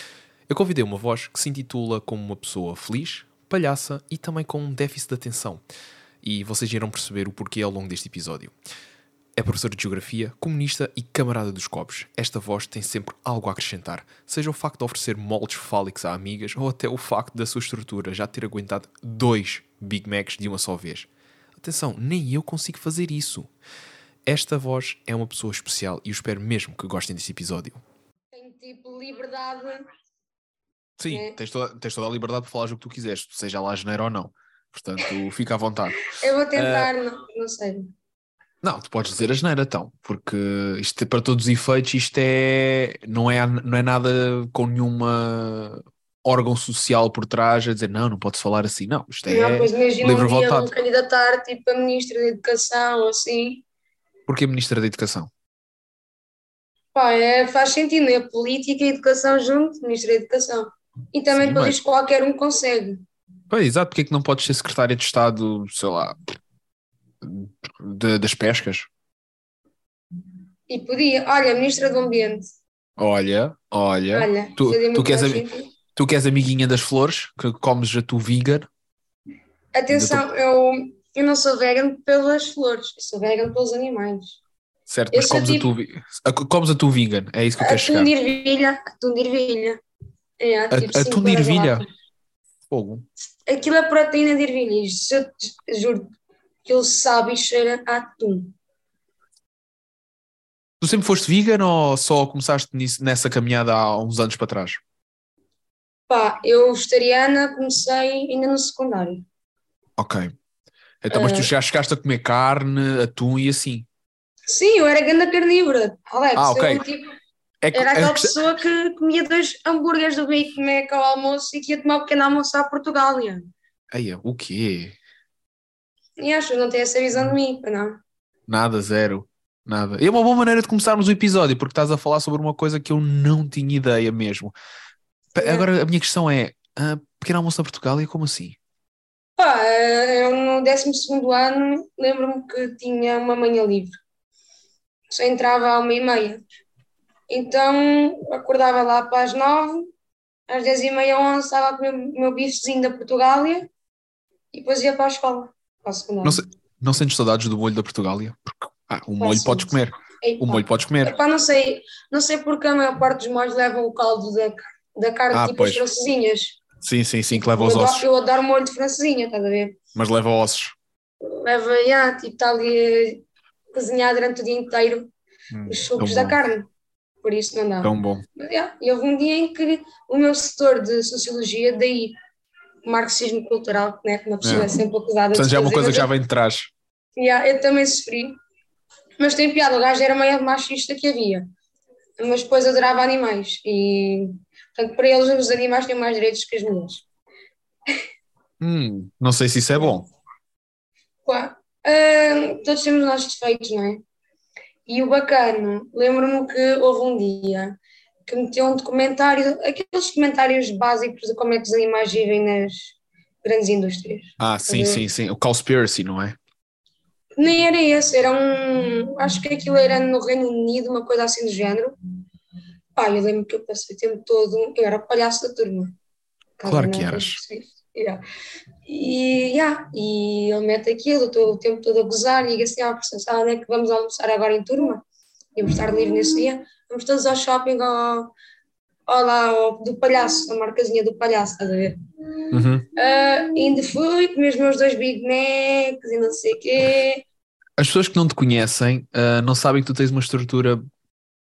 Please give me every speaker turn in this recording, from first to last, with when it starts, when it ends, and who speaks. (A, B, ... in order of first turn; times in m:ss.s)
0:00.5-0:05.6 A
0:06.2-0:08.6 A
0:09.4-0:23.5 A
0:24.3-0:27.8 A
0:28.3-0:29.8 B
0:31.0-0:36.9 A
0:31.1-0:31.4 B
0:36.1-0:37.9 B
0:38.6-0:50.7 A
0:49.3-0:53.6 B
0:54.3-0:55.3 A
0:56.9-1:03.0 B
1:01.3-1:01.8 A
1:03.5-1:06.2 A
1:07.2-1:08.9 A
1:10.7-1:12.5 B
1:13.0-1:18.7 A
1:14.1-1:15.7 B
1:19.7-1:24.4 B
1:19.9-1:20.2 A
1:24.9-1:28.1 A
1:25.1-1:25.7 B
1:27.6-1:29.8 B
1:30.4-1:31.9 B
1:30.7-1:31.8 A
1:32.7-1:33.0 A
1:33.5-1:36.1 B
1:36.7-1:38.6 B
1:40.8-1:44.8 A
1:46.1-1:49.2 B
1:50.0-1:50.3 A
1:51.0-1:53.9 A
1:51.1-1:51.5 B
1:54.5-1:57.0 B
1:56.4-1:56.8 A
1:57.6-1:58.3 A
1:57.7-2:03.5 B
2:03.9-2:05.0 A
2:06.2-2:08.0 B
2:08.5-2:14.5 A
2:15.3-2:18.6 A
2:15.4-2:15.7 B
2:19.4-2:24.0 B
2:25.1-2:26.4 B
2:27.3-2:29.9 B
2:30.5-2:33.7 B
2:34.5-2:36.4 B
2:36.2-2:41.2 A
2:39.2-2:46.6 B
2:45.3-2:45.8 A
2:46.8-2:48.1 A
2:47.3-2:49.8 B
2:50.0-2:50.8 A
2:51.2-2:55.1 B
2:55.5-2:56.4 A
2:55.7-2:56.7 B
2:57.2-3:02.2 B
2:57.8-2:58.2 A
3:02.8-3:06.1 B
3:04.4-3:04.7 A
3:05.3-3:06.7 A
3:07.2-3:08.4 B
3:09.2-3:11.5 B
3:12.2-3:17.0 B
3:18.6-3:20.1 A
3:21.2-3:24.0 B
3:24.9-3:35.0 B
3:34.4-3:36.4 A
3:37.4-3:41.9 B
3:43.0-3:45.9 B
3:46.6-3:48.2 B
3:46.6-3:47.4 A
3:48.9-3:55.0 B
3:55.6-3:58.3 B
3:59.1-4:02.0 B
4:02.5-4:02.9 A
4:03.0-4:07.2 B
4:07.8-4:10.8 A